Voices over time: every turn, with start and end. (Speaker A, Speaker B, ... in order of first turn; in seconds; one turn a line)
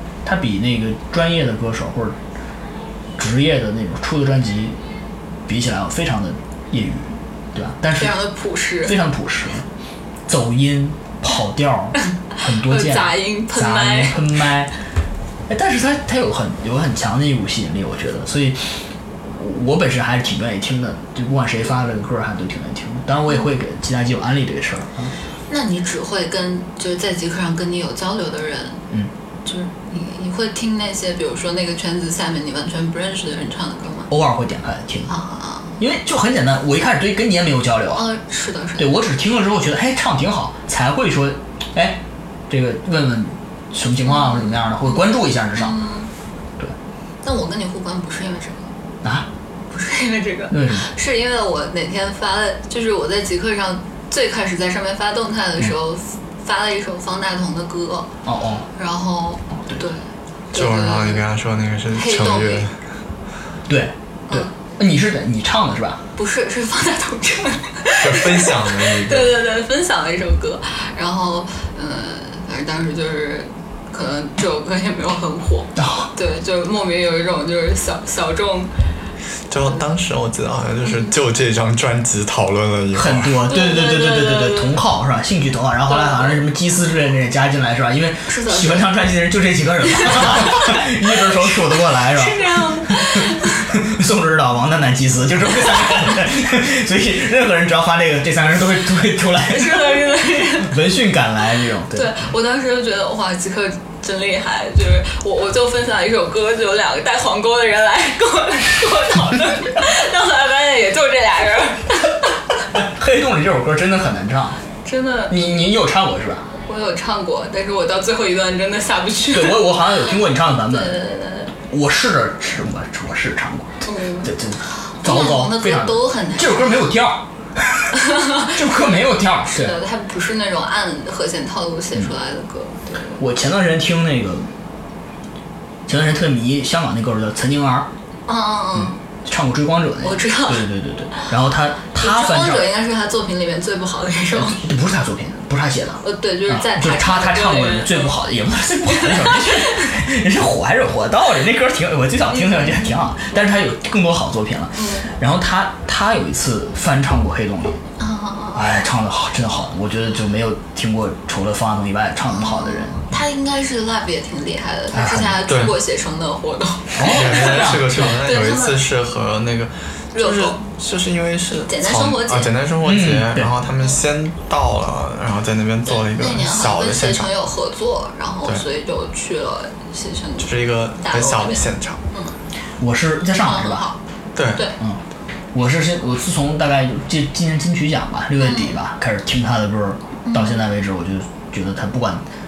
Speaker A: 0.2-2.2
Speaker A: 3.2-4.8
Speaker A: 5.5-8.2
Speaker B: 8.0-9.0
Speaker A: 8.8-9.7
Speaker A: 10.3-14.7
Speaker B: 12.4-14.3
Speaker A: 15.5-25.1
Speaker B: 25.5-28.8
Speaker B: 29.4-34.1
Speaker A: 34.1-35.1
Speaker B: 35.1-35.8
Speaker A: 35.8-38.0
Speaker B: 37.9-39.0
Speaker A: 38.8-45.8
Speaker B: 44.0-46.1
Speaker B: 47.2-48.7
Speaker A: 49.0-49.3
Speaker B: 49.7-58.1
Speaker A: 50.5-50.9
Speaker A: 58.2-58.7
Speaker B: 58.8-61.2
Speaker C: 60.5-62.8
Speaker B: 61.9-62.7
Speaker A: 63.7-66.0
Speaker B: 66.2-78.7
Speaker C: 68.0-69.4
Speaker A: 75.8-76.1
Speaker C: 79.5-83.4
Speaker B: 80.8-81.1
Speaker A: 82.9-102.2
Speaker B: 83.5-84.8
Speaker B: 85.8-86.4
Speaker B: 88.3-88.9
Speaker B: 89.9-90.8
Speaker B: 92.1-93.7
Speaker B: 99.5-100.8
Speaker B: 101.9-112.4
Speaker A: 112.7-114.6
Speaker B: 114.8-115.6
Speaker A: 115.3-116.4
Speaker B: 116.6-119.8
Speaker A: 119.3-127.9
Speaker B: 120.7-121.5
Speaker B: 123.8-126.9
Speaker B: 127.9-128.5
Speaker A: 128.5-129.8
Speaker B: 129.5-133.2
Speaker A: 133.2-134.5
Speaker A: 135.9-137.9
Speaker B: 138.3-139.0
Speaker A: 138.7-142.7
Speaker B: 140.0-141.3
Speaker B: 141.9-144.7
Speaker A: 144.3-157.8
Speaker B: 146.0-148.2
Speaker B: 148.9-149.9
Speaker B: 152.3-153.3
Speaker B: 154.7-155.1
Speaker B: 158.0-158.7
Speaker A: 158.5-163.1
Speaker B: 162.2-168.8
Speaker A: 164.9-165.4
Speaker C: 165.5-165.7
Speaker A: 166.9-168.2
Speaker C: 167.0-177.3
Speaker B: 170.1-170.6
Speaker B: 171.7-172.5
Speaker A: 172.8-173.5
Speaker B: 175.9-182.3
Speaker C: 180.4-182.0
Speaker A: 182.8-183.8
Speaker B: 183.4-184.0
Speaker C: 184.3-184.6
Speaker A: 185.5-192.2
Speaker B: 188.4-188.8
Speaker B: 190.2-190.6